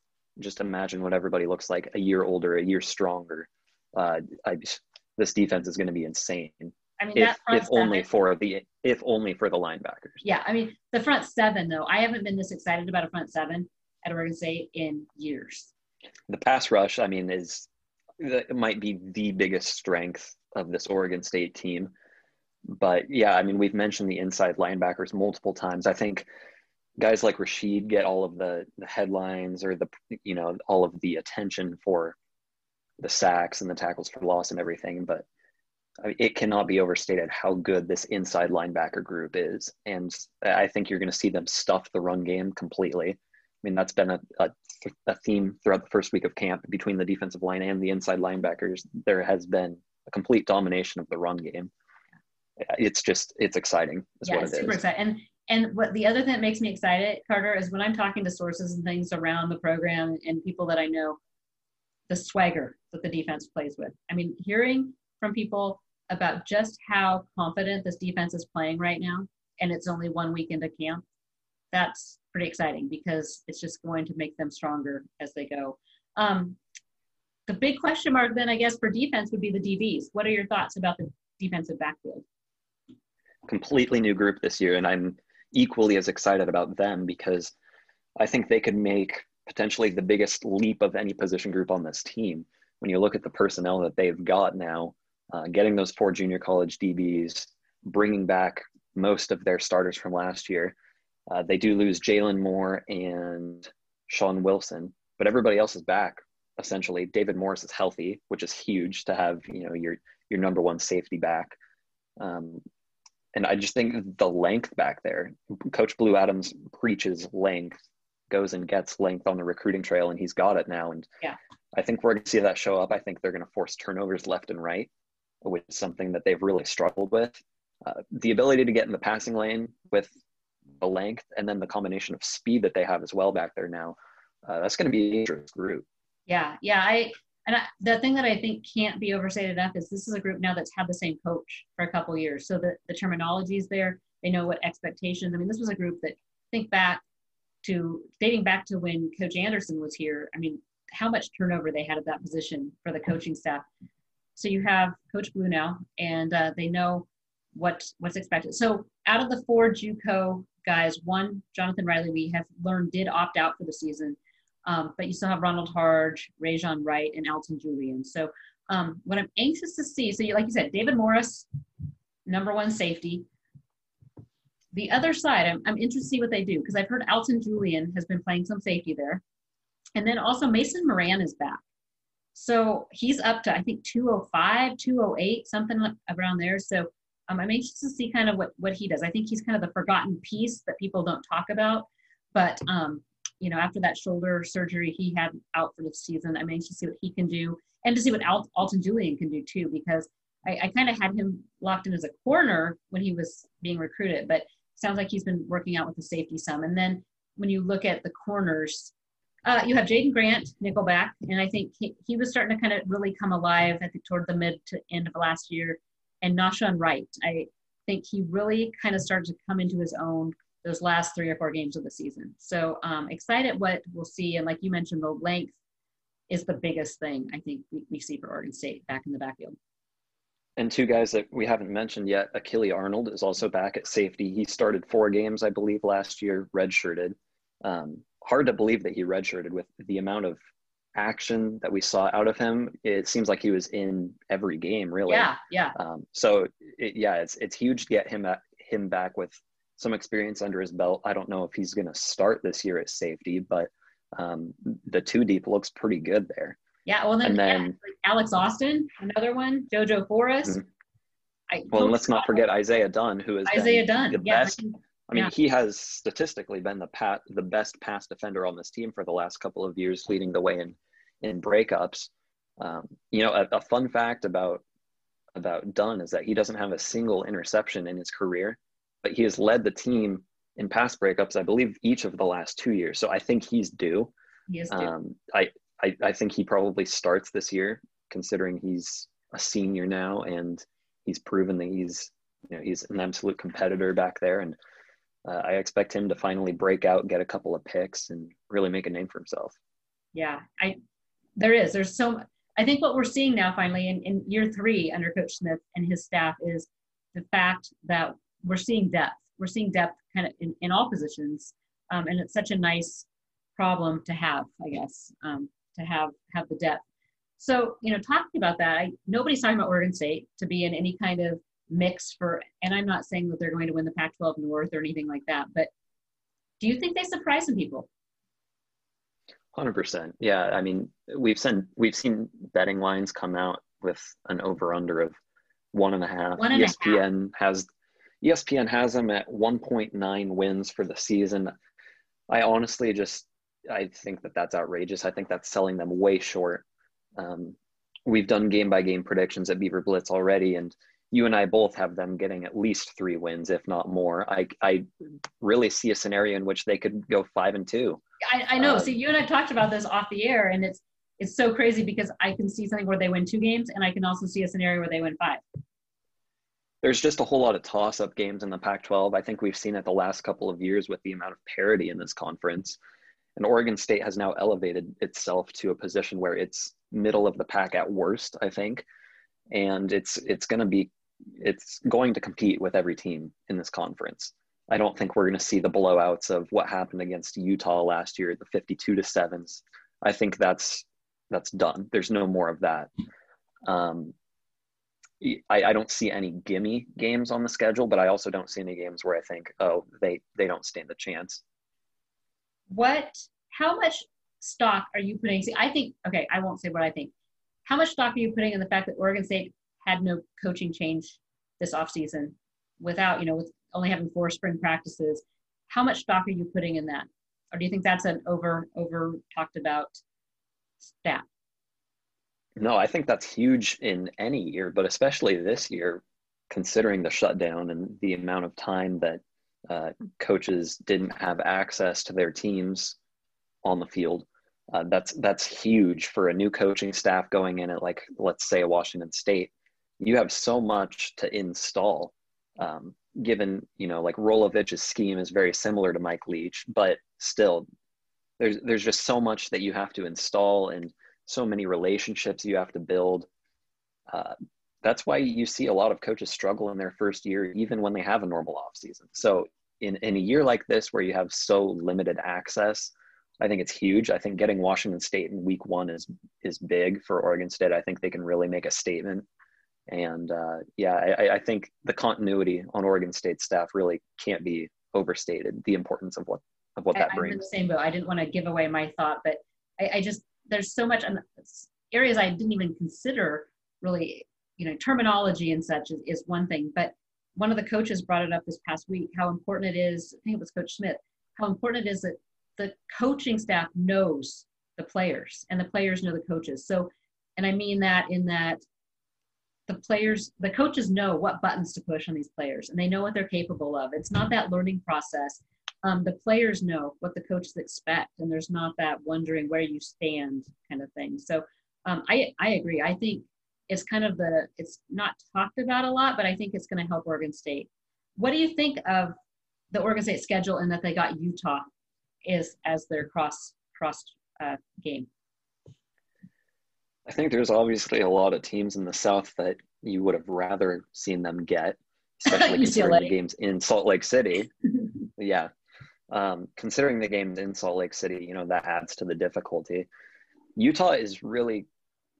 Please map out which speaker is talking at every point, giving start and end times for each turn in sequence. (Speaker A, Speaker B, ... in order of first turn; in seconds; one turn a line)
Speaker A: 0.4-10.2
Speaker B: 7.0-8.1
Speaker B: 10.2-15.7
Speaker A: 16.3-17.7
Speaker A: 18.2-21.9
Speaker A: 22.7-26.2
Speaker A: 27.0-32.1
Speaker A: 33.0-35.2
Speaker A: 36.0-51.7
Speaker A: 52.6-54.8
Speaker B: 54.2-61.2
Speaker B: 62.1-71.0
Speaker B: 71.7-76.6
Speaker B: 77.5-82.2
Speaker A: 83.5-87.5
Speaker A: 88.2-100.7
Speaker A: 101.3-111.5
Speaker A: 112.2-112.6
Speaker A: 113.3-117.8
Speaker A: 118.3-121.1
Speaker A: 121.7-124.9
Speaker A: 125.4-130.1
Speaker A: 130.8-135.8
Speaker B: 136.3-147.0
Speaker B: 147.6-153.7
Speaker B: 154.3-171.4
Speaker B: 172.2-173.3
Speaker B: 174.7-179.2
Speaker B: 179.9-181.6
Speaker B: 182.3-208.9
Speaker B: 209.4-225.5
Speaker B: 226.3-229.6
Speaker A: 230.6-240.4
Speaker A: 240.9-256.6
Speaker B: 245.1-245.8
Speaker B: 256.9-260.6
Speaker A: 257.2-257.7
Speaker B: 261.5-262.4
Speaker A: 261.7-264.6
Speaker B: 263.5-265.3
Speaker A: 265.1-274.6
Speaker A: 275.3-284.1
Speaker B: 284.5-284.9
Speaker A: 284.7-294.6
Speaker A: 295.2-299.6
Speaker B: 300.1-300.8
Speaker B: 301.4-316.8
Speaker B: 317.4-325.7
Speaker B: 326.6-327.9
Speaker A: 329.5-335.2
Speaker A: 335.7-337.7
Speaker B: 336.4-337.0
Speaker A: 338.2-341.5
Speaker A: 342.3-346.6
Speaker A: 347.1-354.9
Speaker A: 355.4-358.0
Speaker B: 358.2-365.4
Speaker A: 358.6-358.9
Speaker A: 366.8-372.8
Speaker A: 373.4-378.8
Speaker A: 379.5-392.9
Speaker A: 393.6-394.1
Speaker A: 395.2-401.4
Speaker B: 402.7-407.1
Speaker B: 407.6-420.0
Speaker B: 420.9-421.2
Speaker A: 422.6-432.9
Speaker A: 433.6-447.7
Speaker A: 448.4-453.3
Speaker A: 454.1-469.3
Speaker A: 469.9-477.4
Speaker B: 476.9-498.6
Speaker B: 499.7-519.1
Speaker B: 519.7-521.7
Speaker B: 522.2-525.1
Speaker A: 527.0-534.5
Speaker B: 532.2-533.1
Speaker A: 535.2-535.5
Speaker A: 536.1-539.9
Speaker A: 540.5-541.7